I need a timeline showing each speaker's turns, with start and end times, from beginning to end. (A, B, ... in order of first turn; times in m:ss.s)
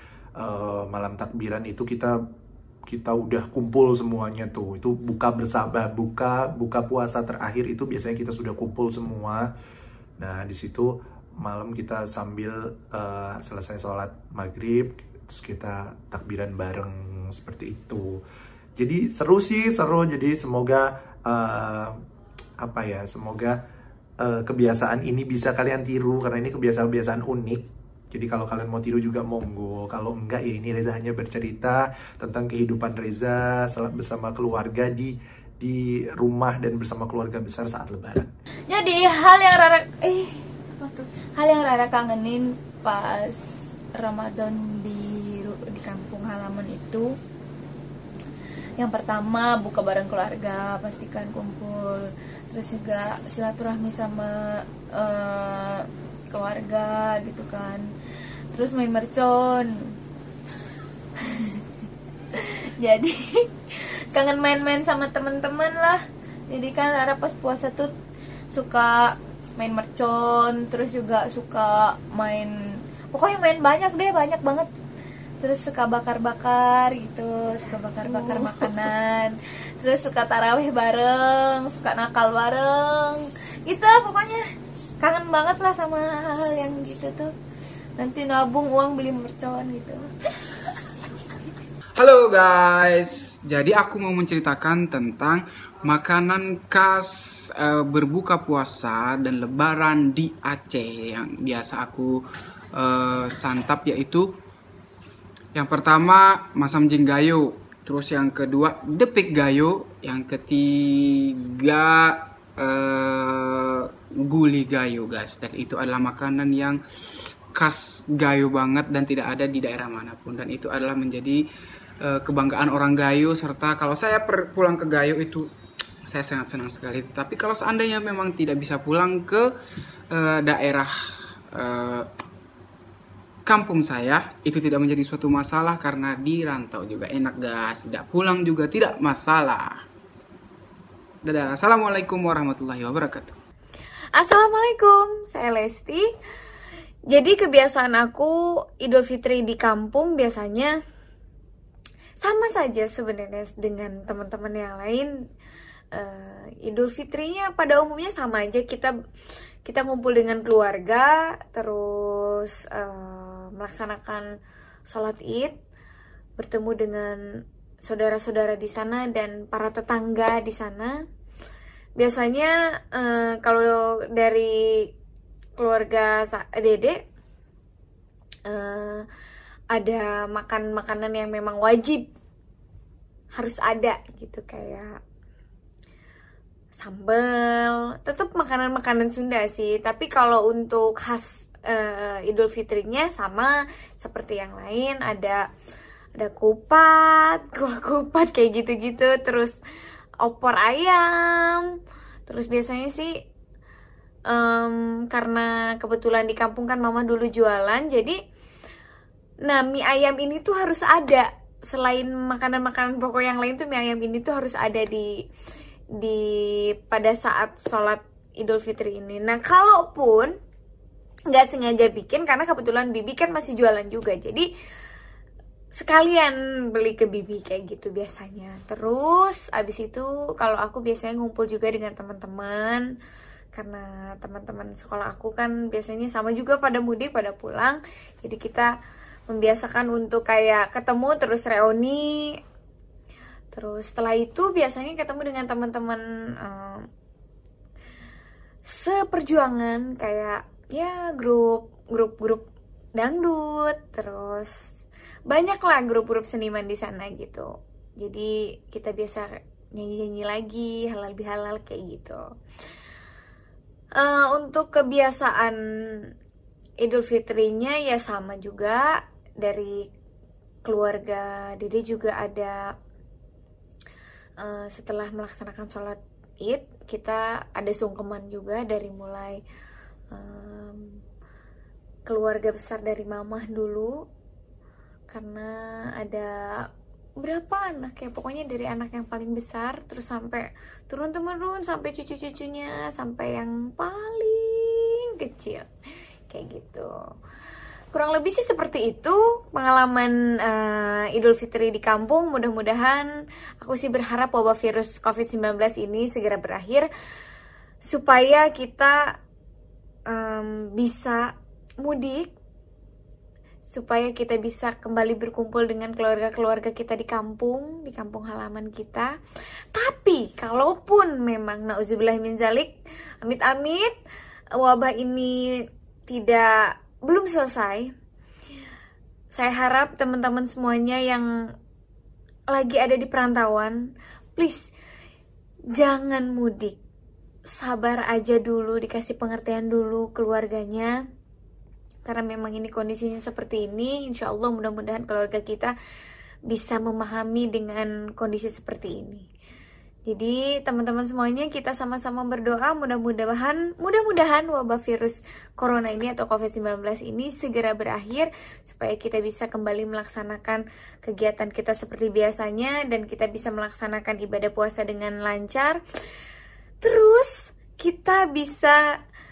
0:00.4-0:02.2 A
0:02.9-0:09.5 A
0:10.2-0:18.2 A
0:18.8-0:22.0 A
0:22.6-0:23.6 A
0:24.2-0:38.3 A
0:38.7-0:47.2 B
0:48.8-0:57.9 B
0:58.5-1:00.0 B
1:01.2-1:01.6 B
1:02.4-1:08.0 B
1:08.5-1:14.7 B
1:15.4-1:24.5 B
1:25.0-1:27.3 B
1:28.0-1:30.1 B
1:32.0-1:37.1 C
1:32.1-1:32.7 D
1:33.6-1:33.9 D
1:37.8-1:42.1 C
1:38.7-1:42.1 D
1:42.8-1:44.2 C
1:43.4-1:44.2 D
1:45.6-1:47.3 C
1:45.6-1:50.6 D
1:47.9-1:48.7 C
1:50.1-1:50.6 C
1:51.6-1:51.9 D
1:52.7-1:53.4 D
1:54.3-1:56.8 D
1:55.9-1:56.7 C
1:57.6-2:01.4 D
1:58.5-1:59.7 C
2:02.1-2:05.4 D
2:02.5-2:03.0 C
2:06.1-2:09.4 D
2:06.7-2:07.2 C
2:08.7-2:09.1 C
2:10.2-2:10.9 D
2:11.6-2:12.0 D
2:13.5-2:18.3 C
2:13.6-2:19.6 D
2:21.3-2:23.3 D
2:24.1-2:26.0 E
2:27.1-2:30.7 E
2:32.2-2:35.1 E
2:35.9-2:38.9 E
2:39.6-2:44.3 E
2:44.9-2:45.6 E
2:46.4-2:47.2 E
2:47.8-2:50.9 E
2:52.0-2:54.9 E
2:55.6-2:57.0 E
2:58.5-2:59.0 E
2:59.7-3:02.1 E
3:03.3-3:04.9 E
3:06.8-3:15.4 E
3:16.2-3:19.6 E
3:20.2-3:23.1 E
3:24.3-3:28.2 E
3:29.4-3:35.1 E
3:36.0-3:40.3 E
3:41.3-3:44.5 E
3:45.7-3:52.9 E
3:53.5-3:58.7 E
3:59.3-4:02.3 E
4:03.5-4:06.9 E
4:08.7-4:14.5 E
4:15.3-4:17.5 E
4:18.0-4:22.2 E
4:24.0-4:25.6 E
4:26.8-4:28.9 E
4:29.4-4:29.8 E
4:30.6-4:32.6 E
4:34.4-4:39.4 E
4:40.1-4:41.0 E
4:42.1-4:44.0 E
4:45.1-4:46.3 E
4:47.2-4:55.7 E
4:56.3-4:56.9 E
4:57.9-5:03.1 E
5:03.6-5:06.9 E
5:07.8-5:09.0 E
5:10.1-5:11.3 E
5:11.8-5:12.3 E
5:13.7-5:19.1 E
5:19.7-5:23.9 E
5:24.6-5:25.4 E
5:26.1-5:27.9 E
5:29.3-5:31.2 E
5:32.5-5:33.8 E
5:34.4-5:34.7 E
5:35.8-5:36.8 E
5:37.5-5:40.9 E
5:42.0-5:45.7 E
5:46.5-5:49.3 E
5:50.1-6:05.8 E
6:06.8-6:08.8 E